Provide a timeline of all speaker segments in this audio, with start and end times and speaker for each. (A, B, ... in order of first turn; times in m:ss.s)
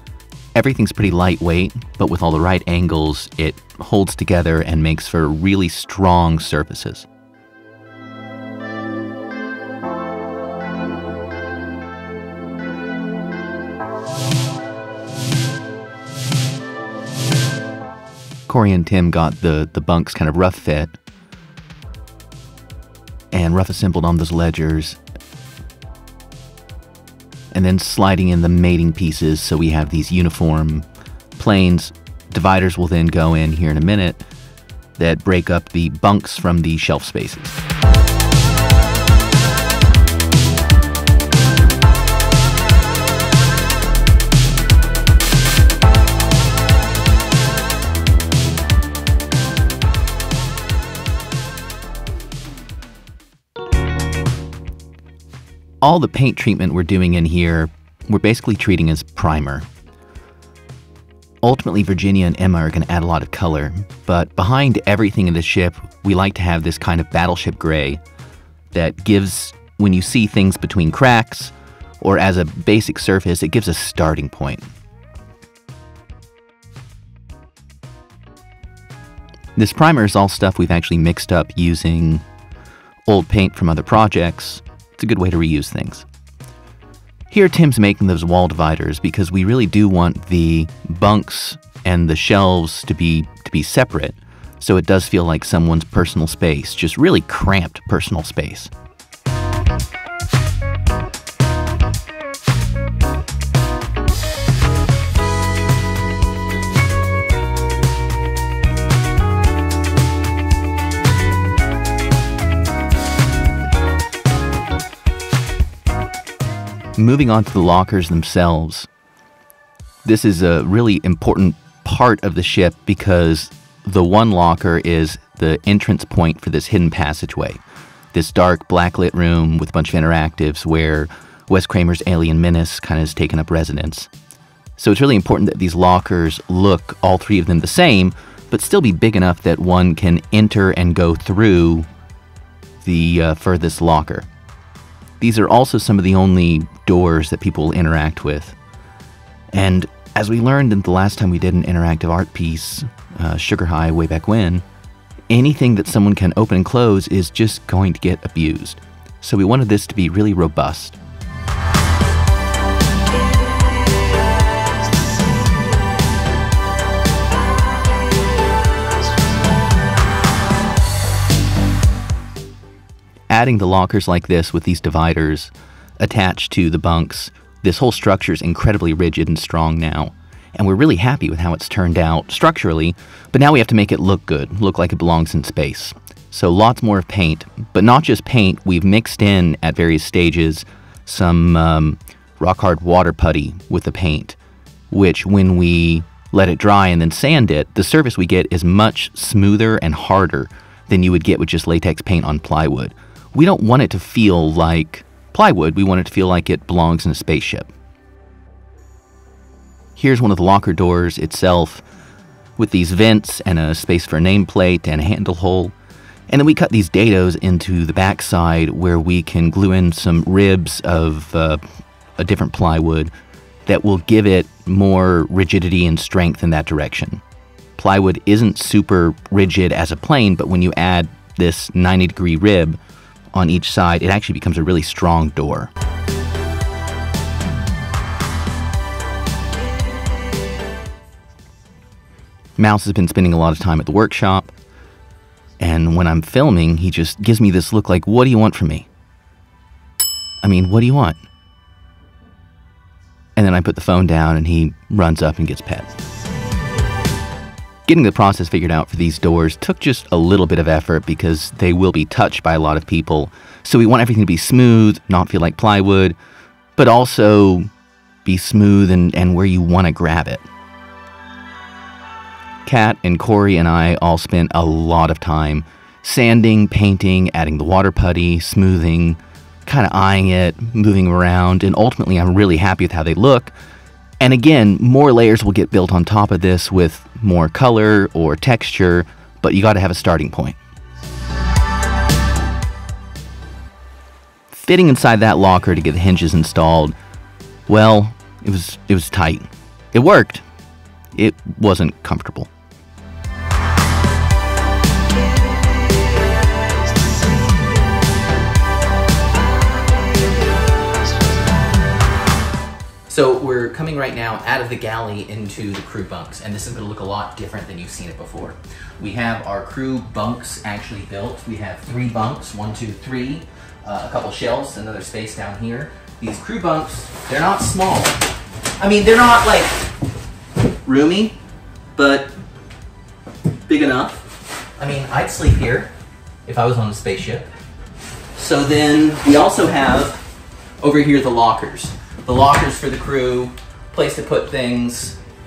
0:00.5-0:07.1 A
0:18.5-0:21.0 A
0:23.3-0:25.0 A
0:27.5-0:34.2 A
0:35.0-0:37.6 A
0:55.8-0:59.7 A
1:01.4-1:08.0 A
1:08.7-1:14.7 A
1:19.6-1:22.2 A
1:23.1-1:26.0 A
1:27.3-1:38.7 A
1:57.0-1:58.9 A
2:00.0-2:07.6 A
2:08.1-2:14.1 A
2:14.8-2:21.9 A
2:22.8-2:24.3 A
2:25.2-2:28.6 A
2:29.5-2:34.6 A
2:35.3-2:41.0 A
2:53.3-3:14.4 A
3:14.9-3:27.7 A
3:30.0-3:31.8 A
3:32.6-3:35.7 A
3:36.3-3:41.6 A
3:42.2-3:43.1 A
3:43.7-3:47.2 A
3:47.8-3:52.8 A
3:53.3-3:55.7 A
4:02.6-4:04.5 A
4:05.6-4:08.9 A
4:10.4-4:11.2 A
4:13.4-4:15.9 A
4:17.8-4:26.2 A
4:26.8-4:27.7 A
4:28.2-4:30.4 A
4:32.6-4:43.5 A
4:44.2-4:50.6 A
4:54.5-4:56.9 A
4:57.7-5:00.4 A
5:01.1-5:02.5 A
5:13.1-5:28.2 A
5:28.8-5:29.8 A
5:30.8-5:31.4 A
5:31.9-5:32.3 A
5:33.6-5:34.2 A
5:34.8-5:35.9 A
5:36.4-5:37.5 A
5:38.4-5:40.2 A
5:40.8-5:45.2 A